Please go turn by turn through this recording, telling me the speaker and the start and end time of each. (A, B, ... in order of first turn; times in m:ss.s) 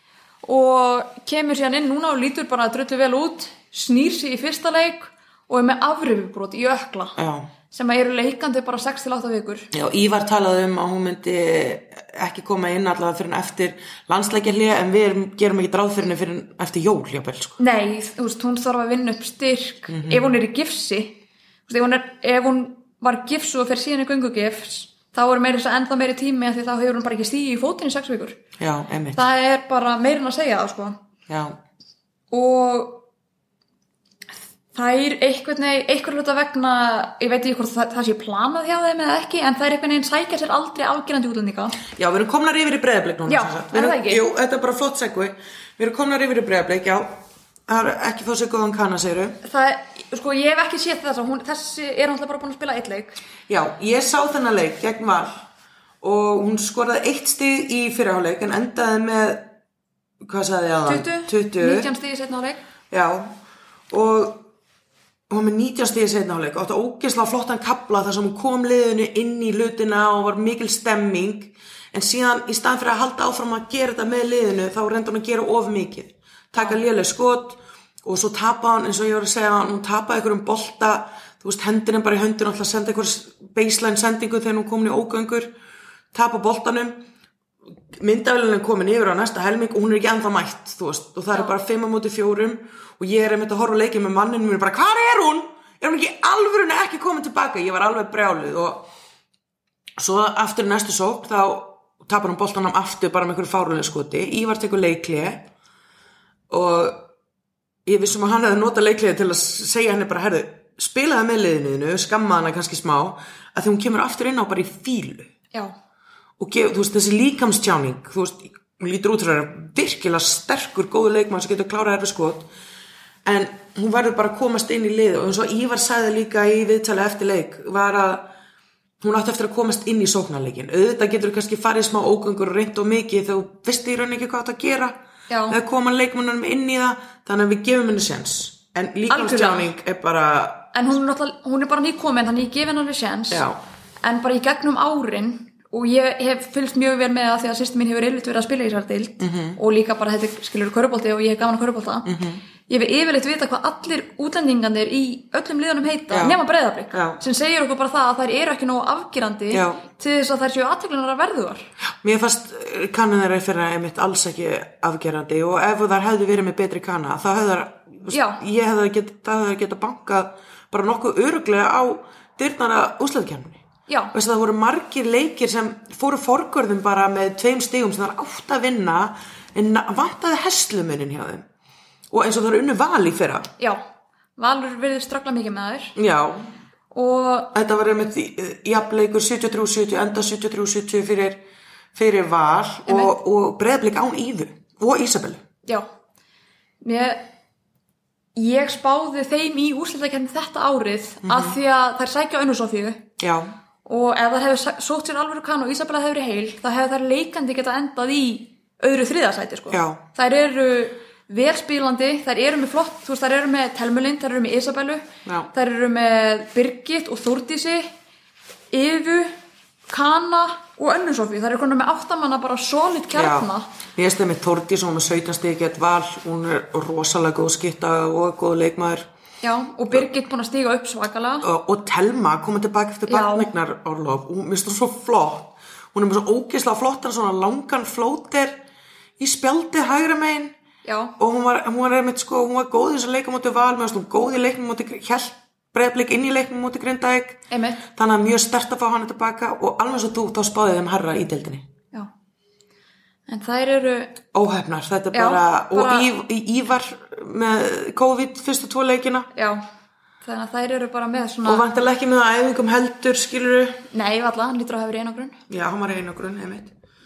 0:00.4-0:07.2 A
0:07.2-0:07.5 B
0:07.7-0:09.7 A
0:09.7-0:17.6 B
0:17.6-0:28.4 A
0:19.9-0:20.3 B
0:28.6-0:29.2 B
0:29.2-0:31.0 A
0:31.3-0:31.6 B
0:32.3-0:33.0 A
0:34.7-0:41.8 A
0:41.9-0:49.4 B
0:43.3-0:44.2 A
0:49.4-0:53.2 A
0:53.5-0:55.4 B
0:56.0-0:59.5 B
1:00.2-1:01.9 B
1:00.9-1:02.6 A
1:02.9-1:03.3 B
1:03.9-1:04.4 B
1:05.3-1:25.5 B
1:26.1-1:27.0 B
1:27.9-1:38.9 B
1:40.0-1:45.5 B
1:46.5-1:47.1 B
1:47.9-1:55.3 B
1:56.4-2:02.5 B
2:03.2-2:08.3 B
2:09.0-2:15.0 B
2:15.3-2:15.6 A
2:15.5-2:20.7 B
2:19.1-2:19.7 A
2:20.7-2:23.4 A
2:23.3-2:23.6 B
2:24.0-2:32.1 A
2:29.2-2:29.6 B
2:32.1-2:32.4 B
2:32.7-2:41.7 A
2:36.1-2:36.4 B
2:36.9-2:37.2 B
2:39.5-2:39.8 B
2:42.0-2:53.6 B
2:48.1-2:48.4 A
2:53.9-2:54.1 A
2:54.1-3:01.5 B
3:02.1-3:03.5 B
3:04.4-3:06.0 A
3:06.0-3:06.5 B
3:06.9-3:07.5 A
3:07.5-3:11.4 B
3:12.0-3:15.4 B
3:12.9-3:13.1 A
3:16.8-3:17.2 A
3:18.4-3:23.1 A
3:21.2-3:21.6 B
3:23.2-3:23.5 B
3:23.8-3:37.9 A
3:29.7-3:30.0 B
3:38.7-3:39.4 A
3:39.9-3:43.7 A
3:43.1-3:49.1 B
3:49.4-3:51.5 A
3:51.4-3:58.6 B
3:53.1-3:53.5 A
3:59.2-4:00.5 B
4:00.8-4:01.2 A
4:01.2-4:11.7 B
4:07.5-4:07.8 A
4:13.3-4:14.2 A
4:14.3-4:19.3 B
4:15.1-4:16.1 A
4:19.3-4:19.6 A
4:20.2-4:21.7 A
4:21.4-4:23.8 B
4:23.9-4:25.4 A
4:25.5-4:26.7 B